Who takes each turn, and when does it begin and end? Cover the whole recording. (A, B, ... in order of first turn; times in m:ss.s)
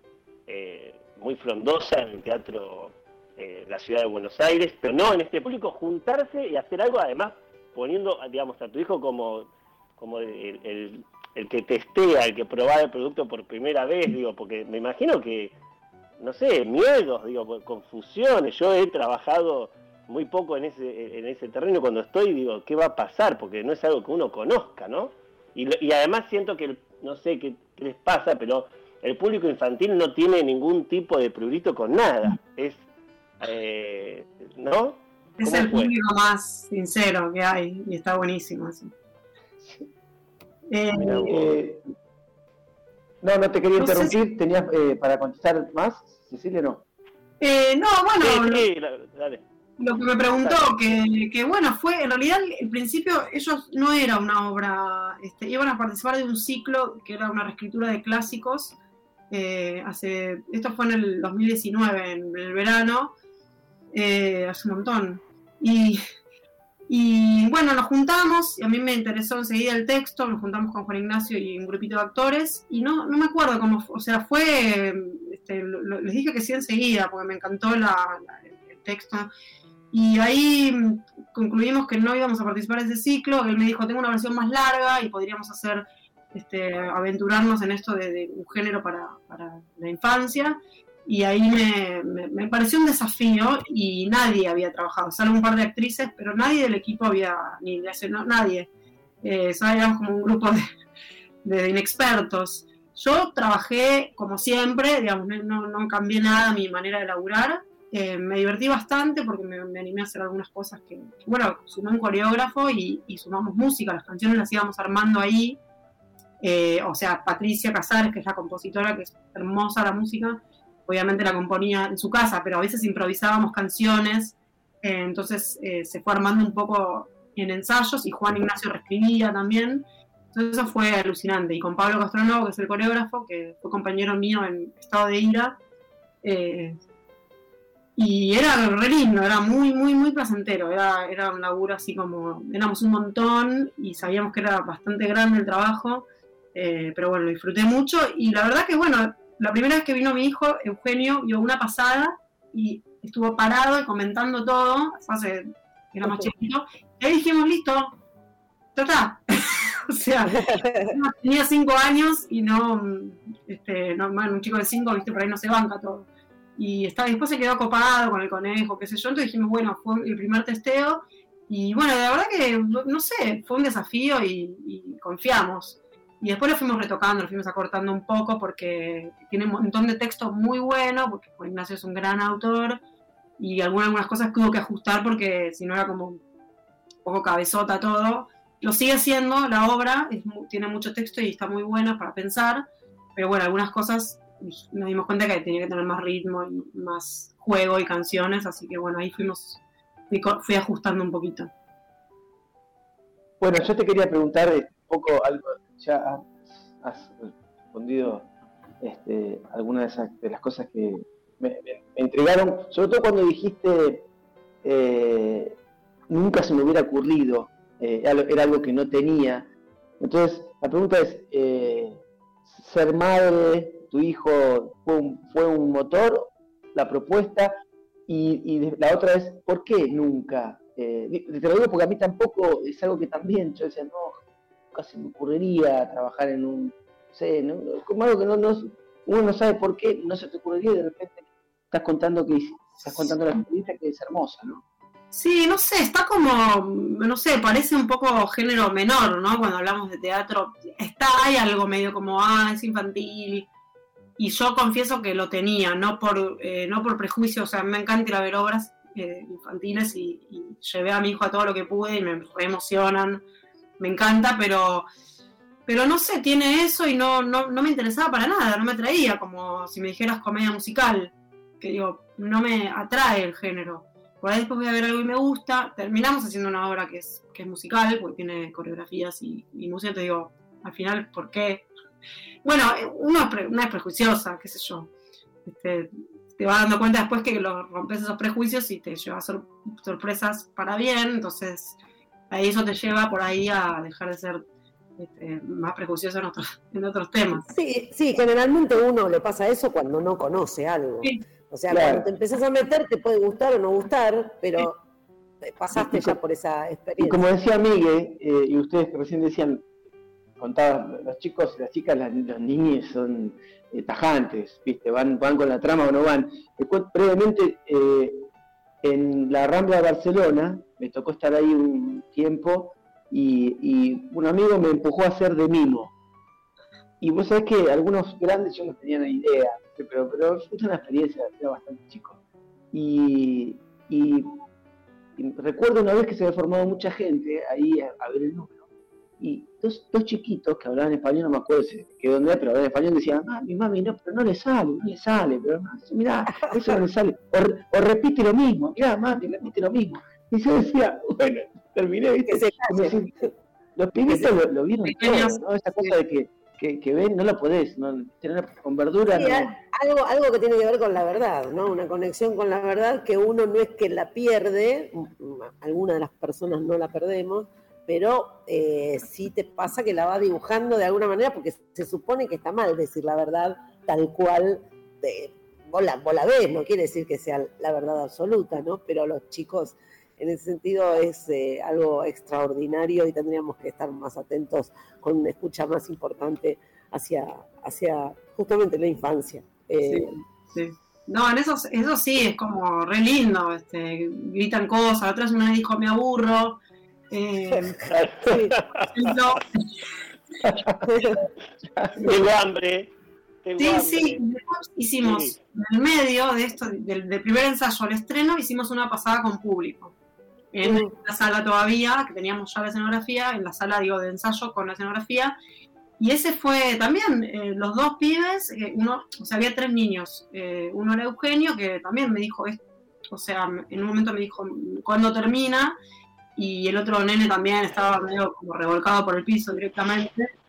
0:00.5-0:15.6 A
0:16.2-0:32.8 A
0:33.4-0:35.9 A
0:35.4-0:38.9 B
0:40.7-0:41.3 B
0:40.9-0:41.5 A
0:41.2-0:41.8 C
0:43.2-0:46.8 C
0:43.8-0:44.2 B
0:47.4-0:48.6 B
0:48.2-0:49.4 A
0:49.8-0:58.8 B
0:50.3-0:50.7 A
0:59.3-1:03.1 B
1:03.9-1:06.0 B
1:06.9-1:19.3 B
1:19.9-1:38.7 B
1:39.2-1:40.6 B
1:41.4-1:55.6 B
1:56.4-2:15.6 B
2:16.2-2:16.8 B
2:18.0-2:37.9 B
2:38.8-3:02.8 B
2:40.3-2:40.9 D
3:03.4-3:06.2 B
3:07.0-3:12.6 B
3:13.2-3:21.5 B
3:23.4-3:28.3 C
3:28.8-3:34.0 C
3:34.6-3:35.6 C
3:36.1-3:39.5 C
3:40.0-3:47.5 C
3:48.1-3:54.2 C
3:54.7-4:04.6 C
4:02.9-4:03.1 B
4:05.1-4:13.5 B
4:14.2-4:23.2 B
4:23.8-4:24.8 B
4:25.7-4:41.7 B
4:42.4-4:44.9 B
4:45.4-4:51.8 B
4:52.3-4:54.4 B
4:55.0-4:57.5 B
4:57.3-5:04.8 D
5:01.7-5:02.1 C
5:05.5-5:07.3 D
5:05.8-5:06.2 C
5:07.0-5:09.6 C
5:10.4-5:18.2 C
5:18.8-5:25.9 C
5:27.0-5:32.2 C
5:32.7-5:34.3 C
5:35.2-5:38.6 C
5:39.2-5:53.1 C
5:46.4-5:46.8 D
5:52.3-5:53.3 D
5:53.8-5:59.5 C
5:54.1-5:54.3 D
5:54.8-5:55.4 B
5:55.1-5:55.9 D
5:59.1-6:30.1 D
6:29.8-6:36.6 B
6:37.1-6:37.8 B
6:37.9-6:38.9 A
6:38.3-6:38.5 D
6:38.9-6:39.7 B
6:40.4-6:40.7 C
6:40.8-6:41.2 D
6:42.0-6:42.9 A
6:43.4-6:44.2 A
6:43.6-6:49.9 B
6:45.0-6:45.4 A
6:50.5-6:55.4 B
6:50.6-6:50.9 D
6:56.0-7:05.8 B
7:06.4-7:10.3 B